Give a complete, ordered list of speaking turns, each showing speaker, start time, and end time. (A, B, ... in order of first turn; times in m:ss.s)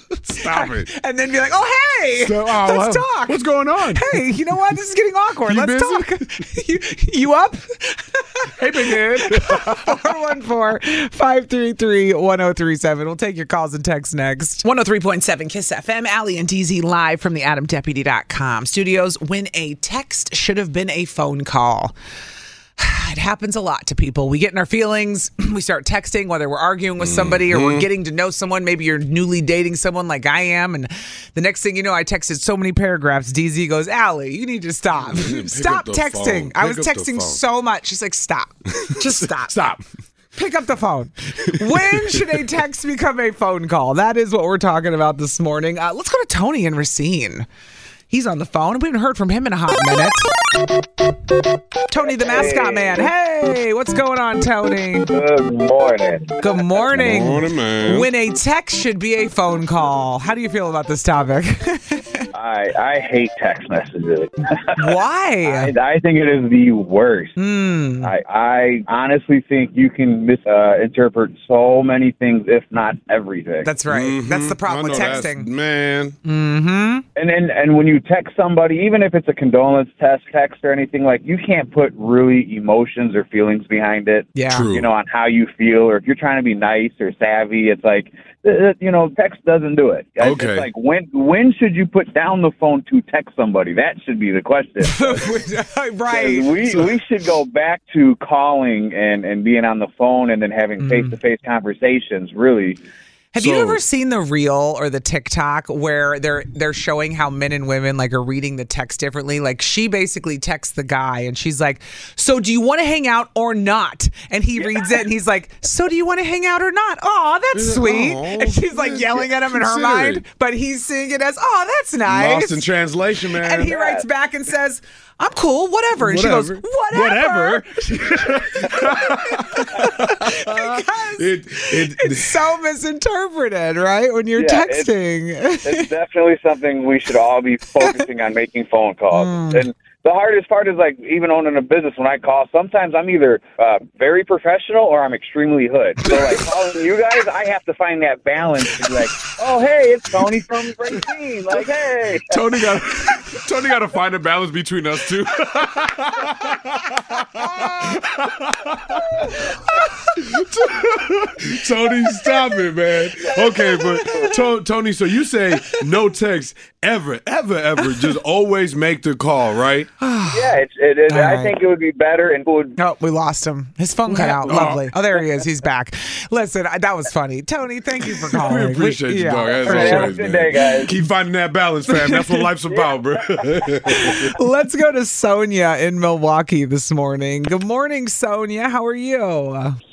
0:00.3-0:03.4 A
0:00.3-0:00.9 B
0:02.2-0:04.2 B
0:03.9-0:21.9 A
0:05.5-0:06.3 B
0:08.6-0:10.1 B
0:22.8-0:39.6 A
0:27.0-0:27.9 B
0:35.1-0:37.4 B
0:38.8-0:39.8 B
0:40.4-0:47.5 A
0:41.5-0:42.4 B
0:48.1-0:50.3 A
0:51.9-0:55.1 A
0:52.1-0:53.0 C
0:55.1-0:56.4 C
0:56.4-1:02.3 A
0:56.9-0:58.1 B
1:02.3-1:04.8 C
1:04.8-1:05.7 A
1:05.4-1:07.3 C
1:07.4-1:08.1 A
1:08.0-1:13.7 C
1:13.6-1:15.5 A
1:13.9-1:16.2 B
1:16.2-1:17.0 A
1:17.2-1:35.3 C
1:24.4-1:24.7 A
1:24.5-1:24.9 B
1:30.2-1:30.7 B
1:34.8-1:36.5 A
1:36.1-1:42.8 C
1:40.8-1:41.2 A
1:43.3-2:02.6 A
1:43.4-1:43.8 B
1:57.5-2:00.2 B
2:02.1-2:03.8 B
2:03.4-2:15.9 A
2:03.7-2:04.0 C
2:06.0-2:12.4 B
2:14.4-2:14.9 C
2:15.6-2:32.4 C
2:19.1-2:19.6 A
2:32.3-2:39.4 B
2:40.1-2:49.9 B
2:43.6-2:44.4 A
2:50.0-2:50.5 A
2:50.3-2:52.8 C
2:51.1-2:51.5 A
2:52.8-3:00.2 A
2:54.1-2:54.9 B
2:58.3-3:04.3 B
2:59.6-3:00.9 C
3:01.9-3:02.4 A
3:03.9-3:09.8 A